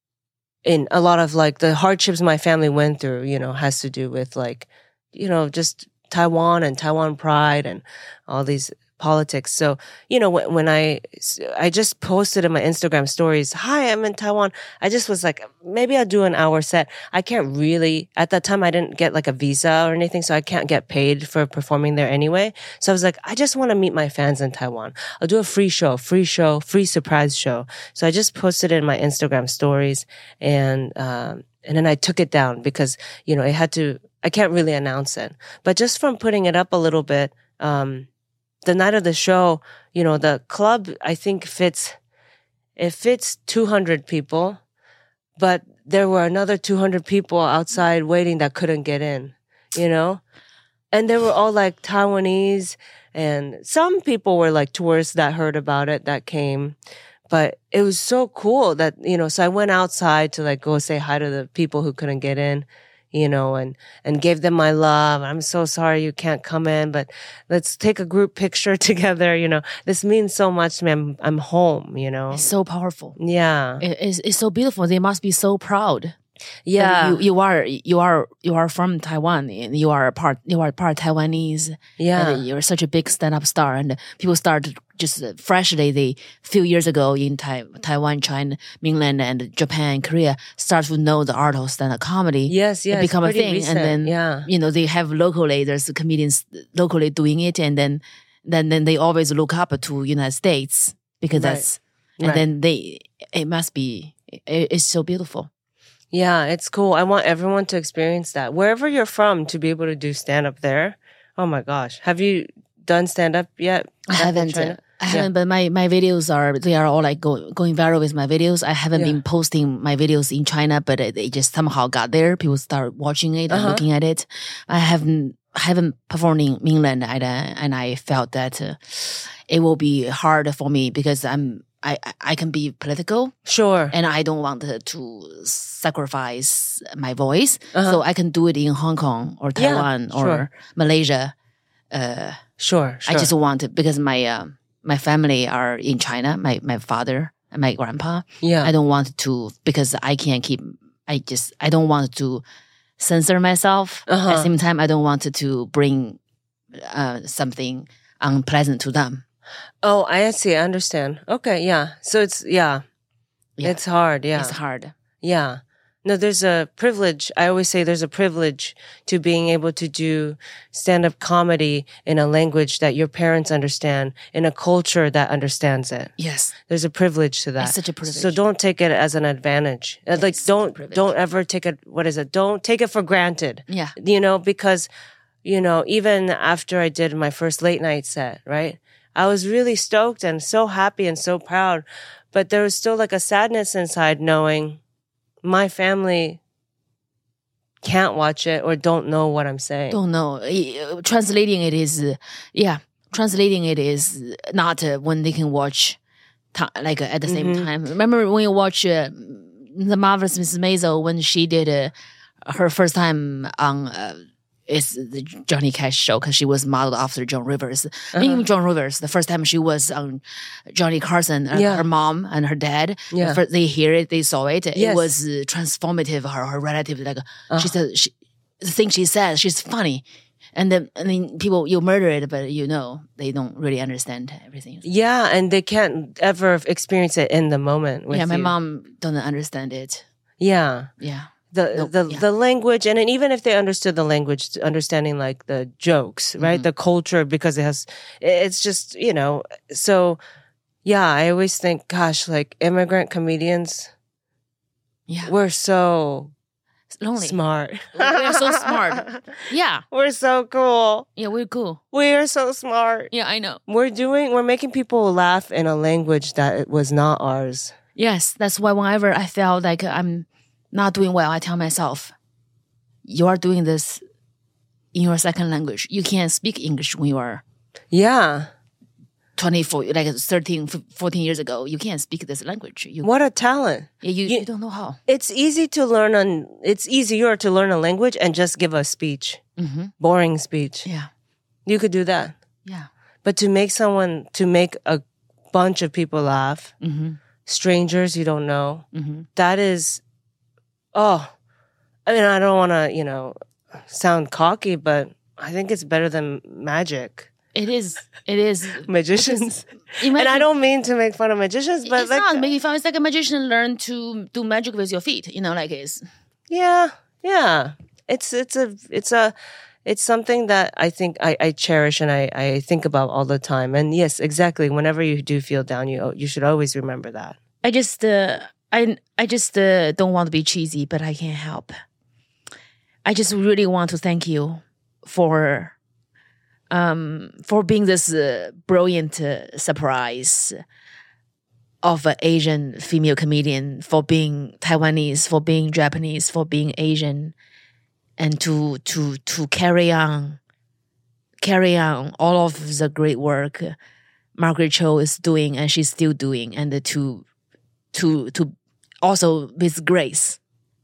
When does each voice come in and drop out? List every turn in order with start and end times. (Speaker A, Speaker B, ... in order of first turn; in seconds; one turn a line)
Speaker A: 0.6-38.1
Speaker A: 38.6-42.0
Speaker A: 42.8-44.6
Speaker A: 45.4-50.2
Speaker A: 50.9-56.8
Speaker A: 57.3-72.5
Speaker B: 72.3-73.2
Speaker A: 73.2-73.8
Speaker B: 73.8-76.2
Speaker A: 76.7-77.2
Speaker B: 76.8-105.5
Speaker A: 82.0-82.4
Speaker A: 92.5-94.5
Speaker A: 101.3-101.6
Speaker A: 106.1-115.3
Speaker B: 114.0-133.3
Speaker A: 118.9-119.2
Speaker A: 123.5-123.8
Speaker A: 133.5-133.9
Speaker B: 133.9-141.3
Speaker A: 137.7-138.0
Speaker A: 139.6-140.4
Speaker B: 141.9-142.4
Speaker A: 142.6-143.3
Speaker B: 143.1-152.4
Speaker A: 148.4-148.7
Speaker B: 153.0-156.2
Speaker A: 154.1-154.5
Speaker B: 156.8-159.2
Speaker A: 159.8-162.8
Speaker A: 163.6-164.6
Speaker B: 164.3-164.9
Speaker A: 165.2-176.1
Speaker B: 176.2-176.5
Speaker A: 176.7-184.9
Speaker B: 177.6-178.4
Speaker B: 180.1-181.1
Speaker B: 183.7-183.9
Speaker A: 185.4-194.8
Speaker A: 195.4-196.4
Speaker A: 197.8-200.0
Speaker B: 199.9-206.0
Speaker B: 206.5-211.9
Speaker A: 207.3-207.7
Speaker B: 212.4-230.0
Speaker A: 218.1-218.4
Speaker A: 221.5-221.8
Speaker A: 223.1-223.4
Speaker A: 224.7-225.1
Speaker B: 230.5-234.8
Speaker A: 234.8-238.5
Speaker B: 238.1-240.0
Speaker A: 240.4-240.9
Speaker B: 241.0-242.2
Speaker A: 241.5-250.2
Speaker B: 246.4-246.7
Speaker A: 250.8-253.9
Speaker B: 255.1-255.3
Speaker A: 255.3-256.3
Speaker B: 256.9-257.4
Speaker A: 257.2-261.1
Speaker B: 257.9-259.8
Speaker B: 261.1-261.8
Speaker A: 261.9-263.1
Speaker B: 263.1-263.6
Speaker A: 263.7-267.7
Speaker B: 267.9-272.1
Speaker B: 273.1-274.0
Speaker B: 274.9-277.4
Speaker A: 277.9-278.5
Speaker B: 279.4-283.1
Speaker A: 283.0-284.4
Speaker B: 284.0-285.0
Speaker A: 285.1-289.4
Speaker B: 289.6-289.9
Speaker A: 290.0-290.9
Speaker A: 291.6-292.4
Speaker A: 293.2-296.7
Speaker B: 296.8-297.2
Speaker A: 297.4-300.0
Speaker B: 298.9-299.3
Speaker A: 300.9-301.3
Speaker A: 302.1-307.3
Speaker B: 307.5-310.5
Speaker A: 308.8-312.4
Speaker B: 311.9-316.1
Speaker A: 316.5-319.3
Speaker A: 319.8-327.4
Speaker B: 327.6-331.7
Speaker B: 333.0-335.7
Speaker B: 336.7-340.6
Speaker B: 341.8-347.3
Speaker B: 348.2-350.4
Speaker B: 351.4-353.7
Speaker B: 354.4-357.2
Speaker B: 357.9-360.4